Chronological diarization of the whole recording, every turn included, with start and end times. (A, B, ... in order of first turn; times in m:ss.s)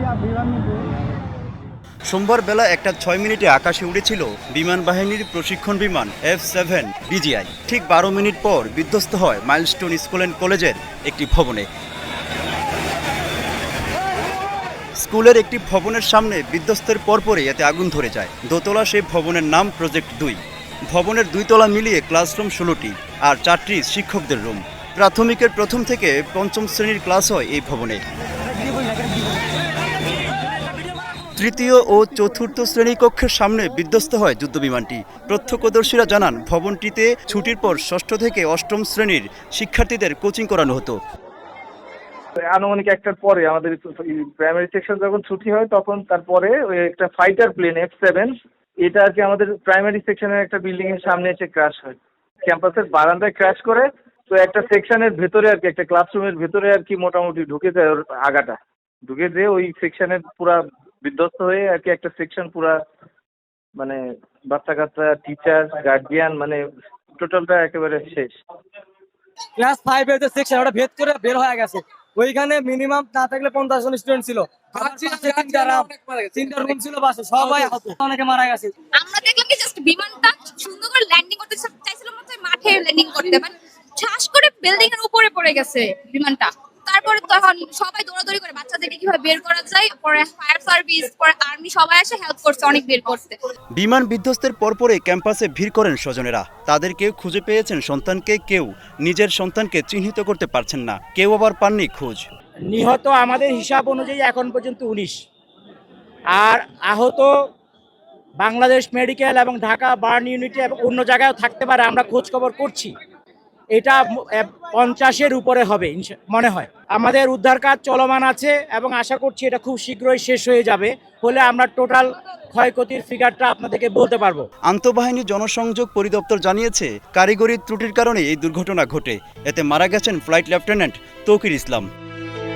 0:02.1-0:11.7 A
0:15.0-0:28.0 A
0:31.4-0:41.0 A
0:42.4-0:48.3 B
0:48.8-1:02.8 B
1:03.8-1:06.6 B
1:07.2-1:08.3 B
1:09.6-1:18.7 C
1:19.0-1:33.4 D
1:33.7-1:42.3 A
1:42.7-1:45.2 E
1:46.3-1:47.3 E
1:48.4-1:52.9 E
1:53.7-2:04.5 E
2:04.7-2:11.9 A